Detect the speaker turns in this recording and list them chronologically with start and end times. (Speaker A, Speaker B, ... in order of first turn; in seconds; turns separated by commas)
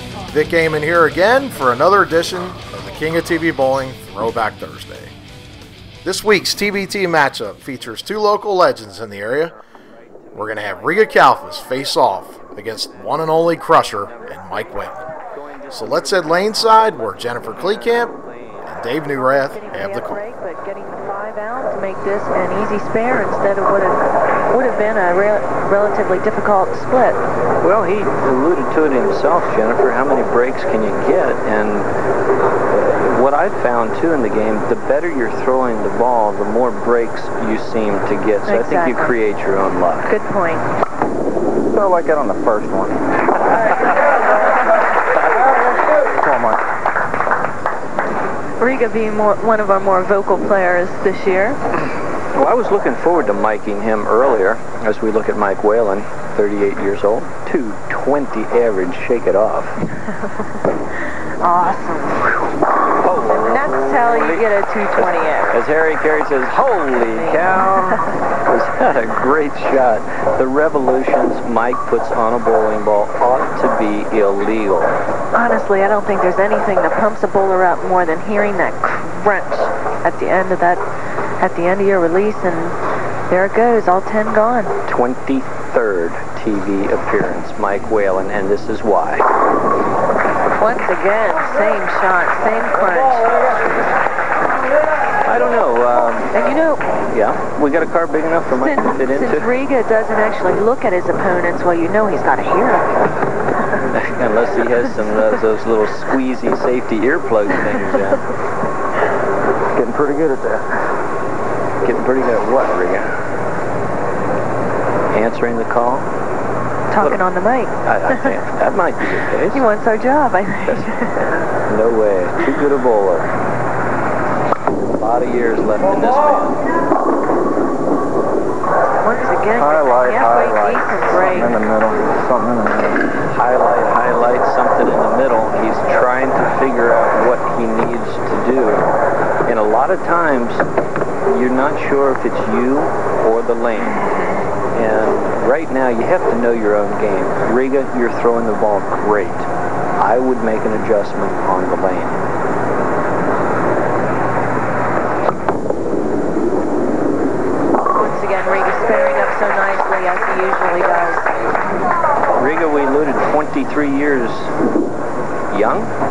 Speaker A: 0.3-5.1, Speaker A: 6.0-9.5, Speaker B: 10.2-19.0, Speaker A: 10.3-15.1, Speaker A: 15.7-18.1, Speaker A: 18.7-20.2, Speaker C: 19.3-27.2, Speaker B: 27.6-31.9, Speaker B: 32.7-40.2, Speaker C: 38.5-39.2, Speaker C: 40.1-40.7, Speaker D: 41.7-43.0, Speaker D: 46.1-46.6, Speaker C: 48.6-51.6, Speaker B: 52.3-59.8, Speaker C: 60.0-60.5, Speaker C: 61.4-62.4, Speaker B: 63.0-75.0, Speaker C: 63.3-65.6, Speaker C: 67.1-68.0, Speaker C: 75.3-80.8, Speaker C: 81.4-82.8, Speaker C: 83.3-84.7, Speaker B: 84.9-89.3, Speaker C: 90.6-93.3, Speaker B: 95.2-96.5, Speaker C: 96.3-96.8, Speaker B: 97.1-99.5, Speaker C: 98.5-103.0, Speaker B: 103.9-108.3, Speaker D: 109.7-110.8, Speaker B: 111.8-113.2, Speaker B: 115.1-116.1, Speaker C: 116.9-118.3, Speaker B: 117.8-119.7, Speaker C: 119.5-121.3, Speaker B: 120.7-123.3, Speaker B: 125.0-126.6, Speaker C: 129.0-131.6, Speaker D: 129.6-133.1, Speaker B: 133.3-138.9, Speaker B: 139.5-140.7, Speaker B: 141.3-144.1, Speaker B: 144.7-149.5, Speaker B: 150.0-152.2, Speaker C: 157.9-161.3, Speaker B: 162.4-164.5, Speaker B: 165.5-165.9